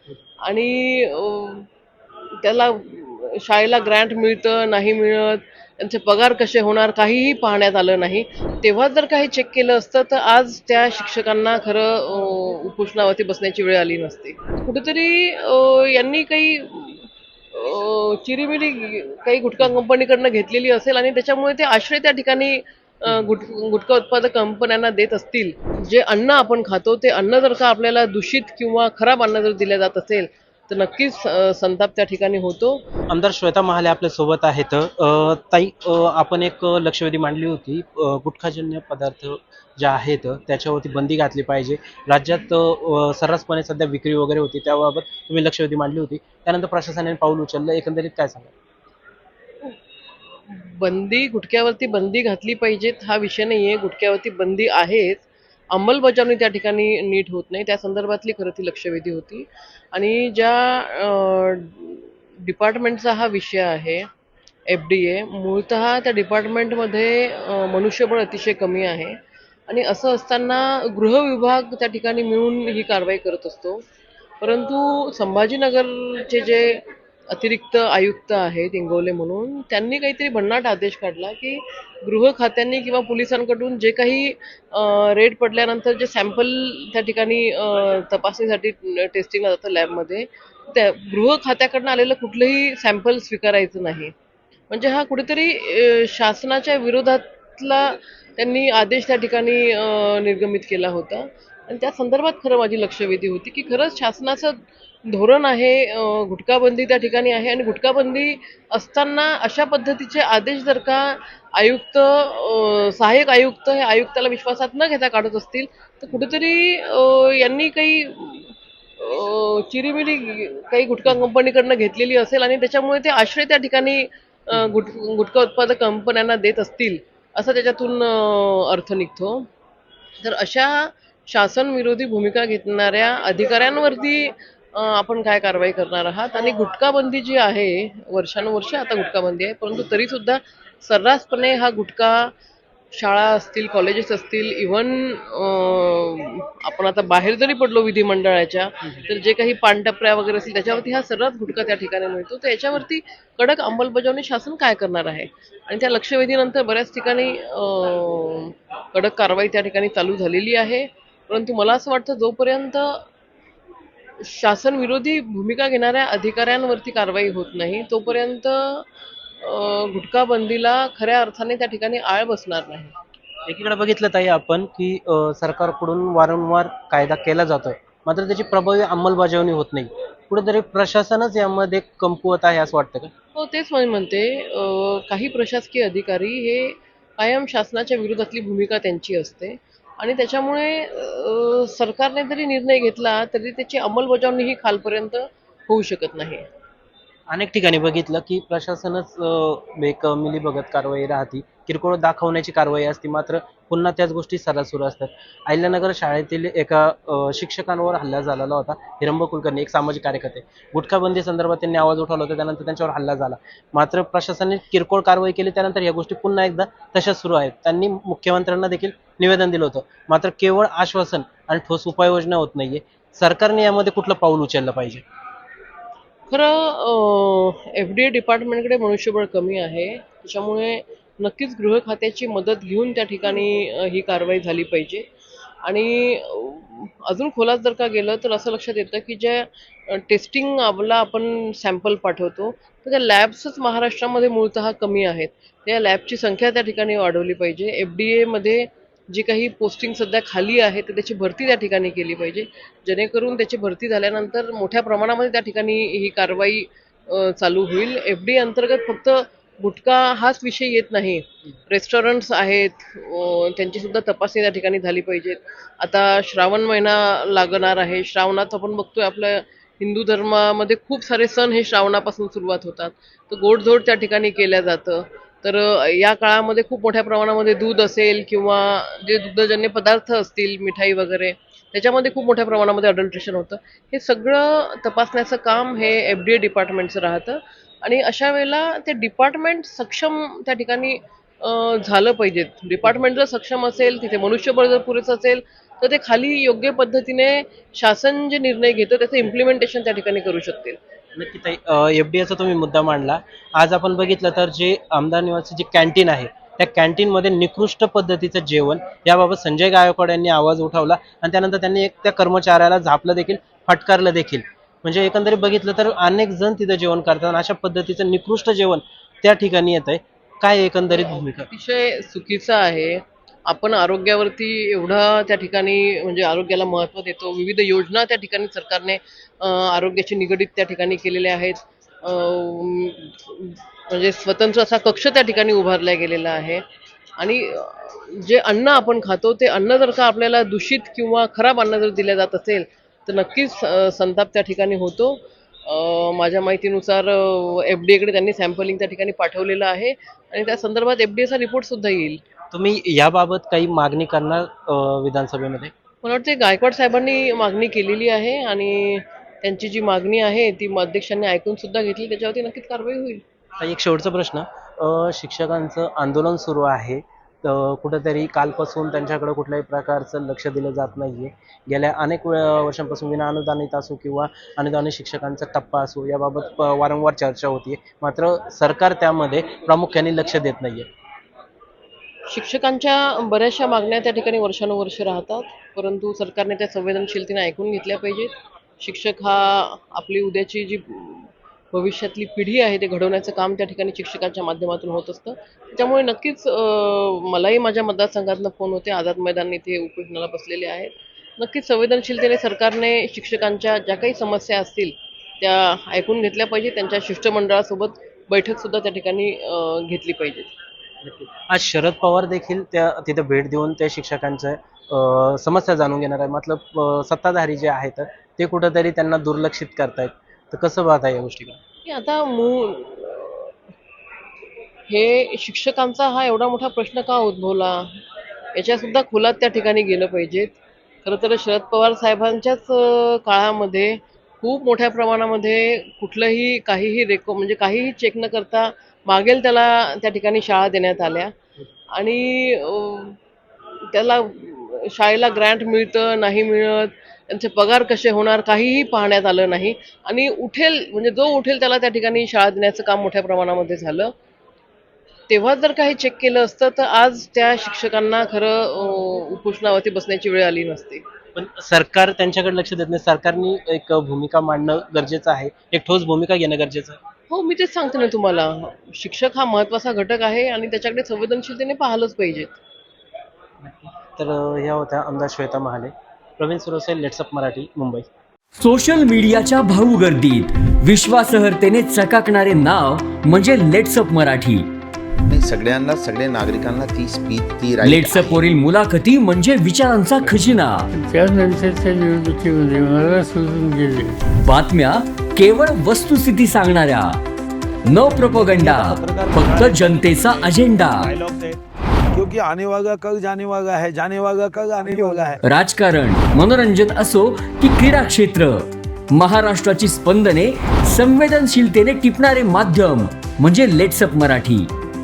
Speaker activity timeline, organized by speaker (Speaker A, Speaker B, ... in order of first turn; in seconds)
Speaker A: 0.4-1.7, 2.4-32.8, 50.5-64.1, 64.7-69.2, 69.7-73.8, 74.4-94.1, 94.7-129.5, 130.2-142.3, 142.9-163.0, 164.2-168.8, 169.4-172.9, 183.3-196.4, 226.3-235.1, 235.6-300.8, 320.9-336.6, 337.2-352.2, 356.0-363.2, 382.3-410.5, 421.9-423.5, 424.9-428.0, 428.6-441.3, 441.9-443.2, 443.9-454.1, 455.3-461.0, 467.3-472.6
Speaker B: 33.1-48.5, 173.5-183.1, 197.3-225.0, 301.2-321.5, 352.5-355.7, 363.6-380.9, 411.0-421.6, 461.4-467.0, 473.6-478.1
Speaker C: 478.6-484.7, 487.8-490.9, 494.4-497.2, 497.9-501.1, 505.4-508.6, 509.1-514.7
Speaker D: 485.3-488.4
Speaker E: 490.9-494.2
Speaker F: 498.0-501.6, 502.1-505.4